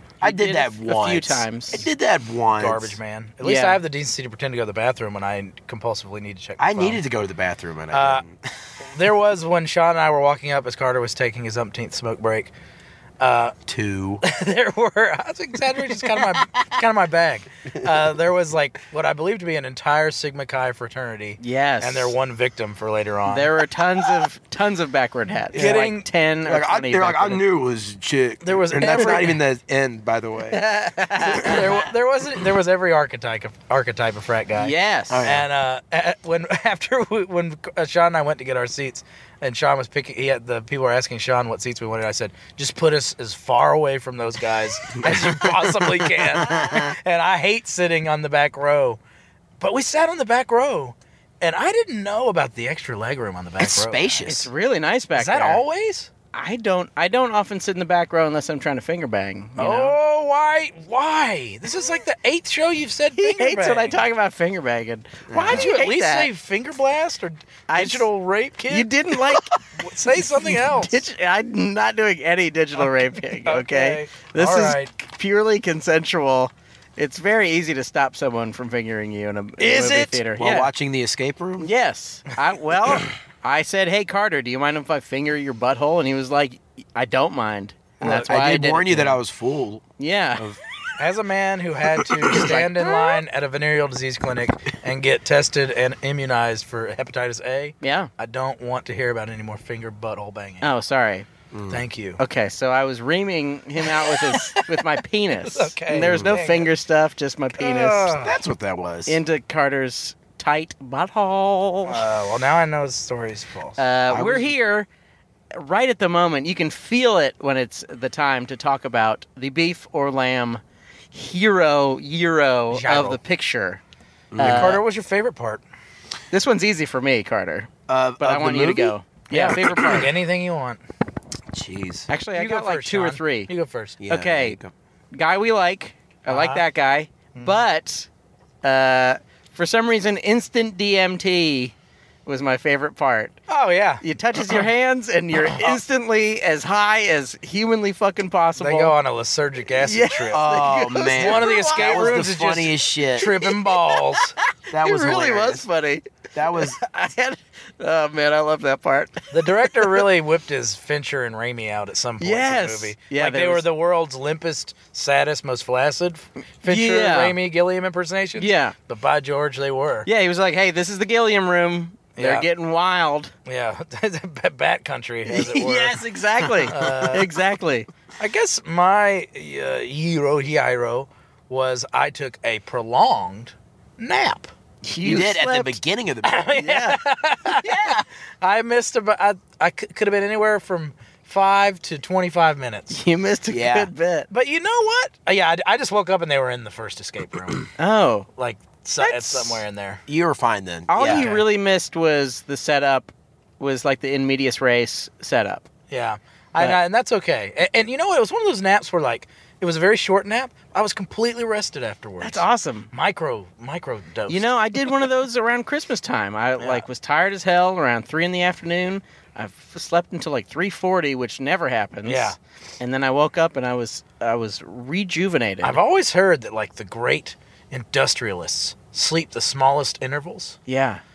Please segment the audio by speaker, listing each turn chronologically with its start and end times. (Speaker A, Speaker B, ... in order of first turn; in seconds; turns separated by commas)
Speaker A: 0.2-3.0, Speaker B: 0.2-1.9, Speaker C: 2.6-7.0, Speaker B: 3.4-3.8, Speaker A: 6.6-8.3, Speaker C: 7.9-8.2, Speaker C: 8.9-12.5, Speaker C: 13.2-13.6, Speaker A: 13.7-14.2, Speaker C: 14.2-23.6, Speaker B: 21.4-22.1, Speaker B: 23.3-27.4, Speaker C: 25.5-26.1, Speaker A: 25.5-25.9, Speaker A: 26.4-30.6, Speaker C: 28.4-29.4, Speaker B: 28.9-29.2, Speaker B: 30.5-31.7, Speaker C: 31.3-49.0, Speaker A: 31.4-31.8, Speaker B: 34.6-35.2, Speaker A: 35.1-35.5, Speaker A: 45.0-46.9, Speaker C: 49.6-54.2, Speaker A: 53.6-54.5, Speaker B: 54.2-55.6, Speaker C: 55.2-56.1, Speaker B: 56.3-60.0, Speaker C: 59.6-64.0, Speaker B: 63.2-66.3, Speaker A: 65.3-65.7, Speaker C: 65.5-71.0, Speaker B: 67.7-68.1, Speaker B: 68.7-69.6, Speaker B: 70.1-80.7, Speaker C: 72.8-74.9, Speaker C: 79.6-80.2, Speaker A: 80.4-81.7, Speaker B: 81.6-89.2, Speaker A: 88.0-89.8, Speaker B: 90.0-90.5, Speaker C: 91.0-100.7, Speaker A: 92.0-92.3, Speaker B: 92.3-93.1, Speaker B: 97.8-98.1, Speaker B: 100.6-101.3, Speaker A: 101.5-101.8, Speaker C: 101.7-102.2, Speaker B: 102.2-108.1, Speaker C: 103.9-104.8, Speaker C: 105.5-106.7, Speaker A: 105.9-106.3, Speaker C: 107.6-108.4, Speaker A: 108.2-109.2, Speaker B: 109.1-112.0, Speaker C: 111.9-113.8, Speaker B: 113.8-114.9, Speaker A: 114.1-114.5, Speaker B: 115.5-123.8, Speaker C: 122.7-123.2, Speaker A: 124.3-124.8, Speaker B: 124.4-124.8, Speaker C: 124.4-125.6, Speaker B: 126.3-130.1, Speaker A: 127.9-128.9, Speaker C: 129.3-130.8, Speaker A: 131.5-132.1, Speaker B: 132.1-133.5, Speaker C: 132.3-134.0, Speaker A: 134.0-134.7, Speaker B: 134.1-134.6, Speaker B: 135.1-138.1, Speaker C: 136.3-136.6, Speaker C: 137.4-137.7, Speaker B: 138.6-141.8, Speaker B: 142.3-143.4, Speaker C: 143.5-144.7, Speaker B: 144.0-148.9, Speaker C: 145.4-145.8, Speaker C: 148.6-150.5, Speaker B: 149.8-152.3, Speaker A: 150.3-153.3, Speaker C: 151.1-154.3, Speaker B: 153.2-160.0, Speaker A: 154.7-155.7, Speaker A: 156.3-156.8, Speaker C: 159.3-170.1, Speaker B: 162.2-163.7, Speaker B: 166.7-167.3, Speaker B: 168.4-168.7, Speaker B: 170.1-173.3, Speaker C: 172.2-172.5, Speaker C: 173.5-176.1, Speaker B: 175.3-177.9, Speaker C: 176.7-177.4, Speaker C: 178.2-184.5, Speaker B: 184.8-185.8, Speaker A: 185.0-186.5, Speaker C: 186.2-193.0, Speaker B: 186.5-188.0, Speaker B: 192.9-194.3, Speaker A: 193.5-193.9, Speaker C: 194.3-197.7, Speaker B: 197.8-198.3, Speaker C: 198.4-200.0, Speaker B: 199.0-199.6, Speaker A: 200.1-201.3, Speaker B: 200.9-205.7, Speaker C: 201.0-201.4, Speaker C: 205.9-215.0, Speaker B: 212.2-212.9, Speaker B: 214.3-225.8, Speaker C: 216.6-216.8, Speaker C: 222.1-222.4, Speaker C: 225.6-230.6, Speaker B: 230.7-231.0